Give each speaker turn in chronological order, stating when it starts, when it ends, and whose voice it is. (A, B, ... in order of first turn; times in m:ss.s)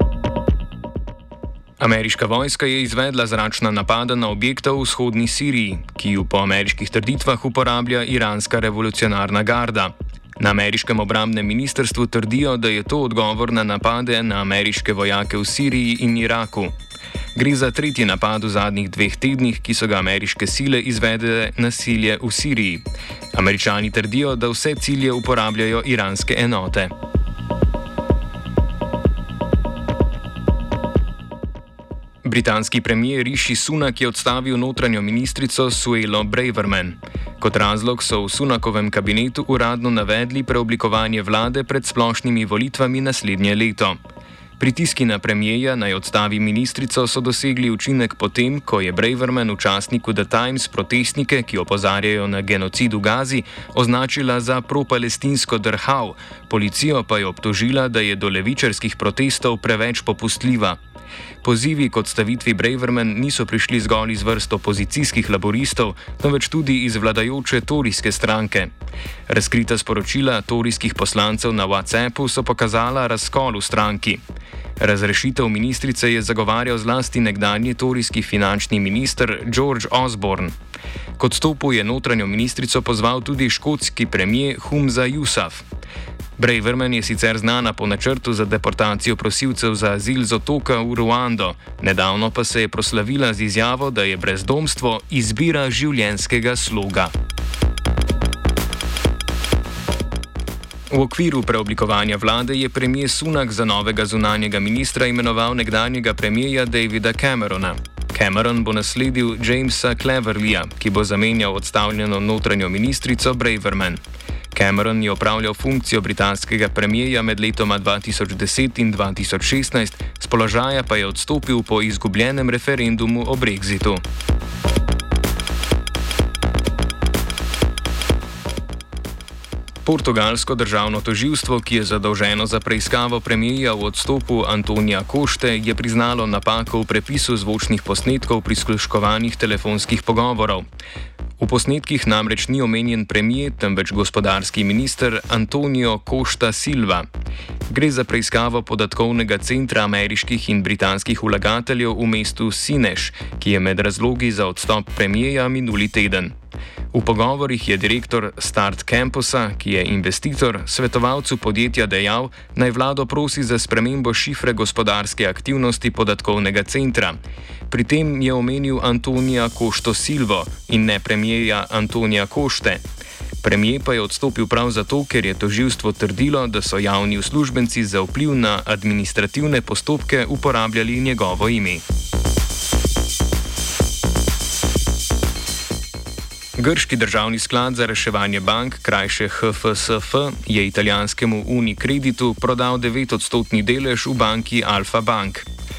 0:01.8-0:16.7 A
0:17.4-0:26.9 A
0:32.2-0:44.0 A
0:44.6-1:00.8 A
1:01.4-1:08.7 A
1:09.3-1:14.2 A
1:14.8-1:20.5 A
1:21.2-1:25.6 A
1:26.4-1:37.1 A
1:40.9-1:54.0 A
1:54.5-2:04.0 A
2:09.8-2:20.6 A
2:21.4-2:27.1 A
2:27.7-2:36.3 A
2:36.9-2:47.2 A
2:47.7-2:52.8 A
2:53.4-3:01.8 A
3:06.6-3:15.5 A